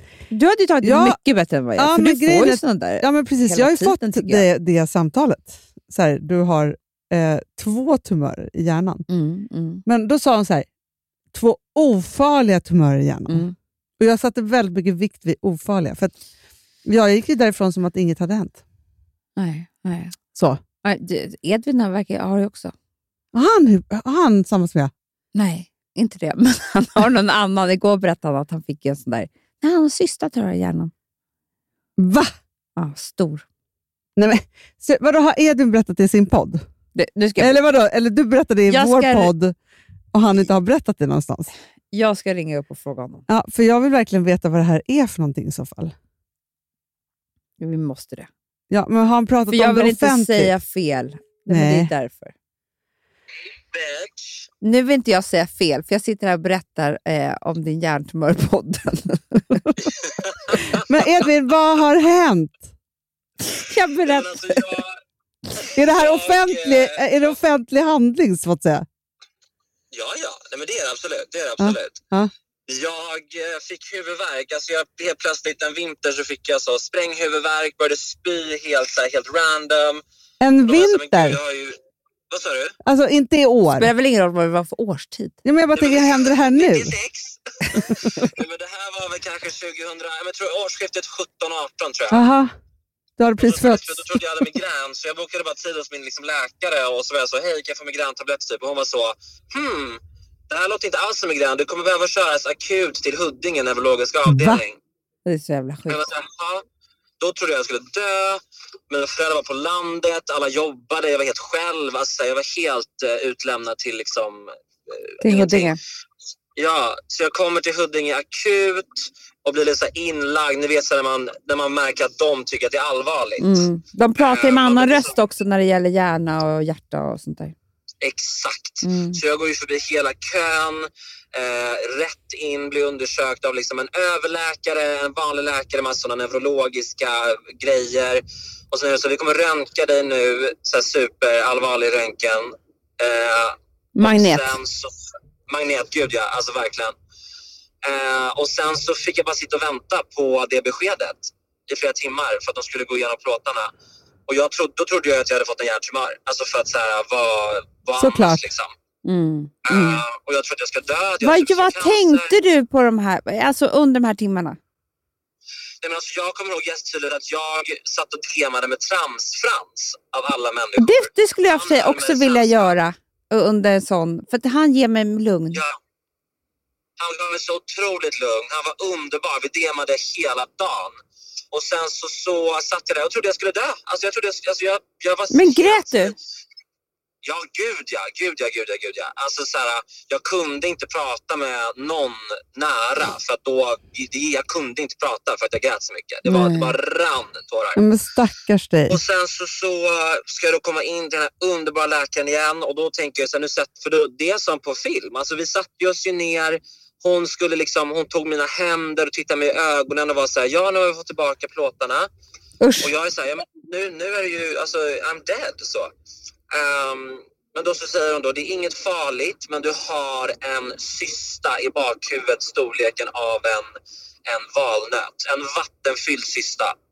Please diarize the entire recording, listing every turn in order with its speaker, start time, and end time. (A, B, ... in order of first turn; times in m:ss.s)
0:00.3-0:04.4 A
0:00.8-0:01.2 B
0:01.8-0:09.1 B
0:09.1-0:09.8 A
0:09.8-0:10.7 B
0:11.3-0:13.4 B
0:13.3-0:13.5 A
0:14.0-0:16.1 B
0:16.8-0:18.6 B
0:19.4-0:20.2 A
0:20.3-0:20.6 B
0:20.8-0:22.7 A
0:23.3-0:24.9 B
0:25.3-0:30.9 A
0:32.0-0:32.3 B
0:32.8-0:33.4 A
0:34.2-0:36.6 B
0:36.9-0:37.6 A
0:37.4-0:39.6 B
0:38.7-0:39.3 A
0:40.1-0:41.5 B
0:41.9-0:43.2 A
0:43.3-0:45.9 B
0:47.6-0:48.3 A
0:48.7-0:50.5 B
0:49.5-0:52.3 A
0:51.5-0:51.9 B
0:53.7-0:54.4 C
0:54.6-0:59.7 A
1:00.1-1:00.6 C
1:00.7-1:02.7 B
1:03.4-1:04.7 A
1:04.0-1:05.0 C
1:05.6-1:07.2 C
1:05.6-1:08.8 B
1:09.9-1:12.0 C
1:11.6-1:12.3 B
1:12.7-1:20.0 C
1:20.4-1:21.4 B
1:20.6-1:21.8 C
1:22.3-1:22.7 C
1:22.8-1:23.9 B
1:23.8-1:25.4 A
1:25.4-1:26.9 B
1:25.7-1:32.2 C
1:27.8-1:28.2 B
1:32.1-1:32.5 B
1:33.2-1:34.2 B
1:33.4-1:44.8 C
1:44.3-1:44.6 B
1:45.2-1:46.0 A
1:45.9-1:46.6 C
1:47.2-1:55.7 C
1:55.2-1:55.8 A
1:56.6-2:03.7 C
2:03.4-2:07.6 A
2:04.2-2:05.2 C
2:08.0-2:24.9 C
2:08.8-2:09.2 A
2:24.0-2:24.6 A
2:25.5-2:26.9 C
2:27.8-2:33.7 C
2:34.3-2:38.7 C
2:38.0-2:38.4 B
2:39.0-2:40.0 A
2:39.7-2:42.3 C
2:41.2-2:44.6 A
2:45.8-2:52.8 C
2:50.8-2:55.6 A
2:57.0-3:01.0 C
3:01.5-3:06.2 C
3:05.3-3:06.1 A
3:07.2-3:17.8 C
3:16.3-3:16.7 B
3:17.8-3:19.0 B
3:18.9-3:32.1 C
3:32.6-3:32.9 A
3:32.8-3:35.9 C
3:36.5-3:43.7 C
3:44.2-3:46.7 C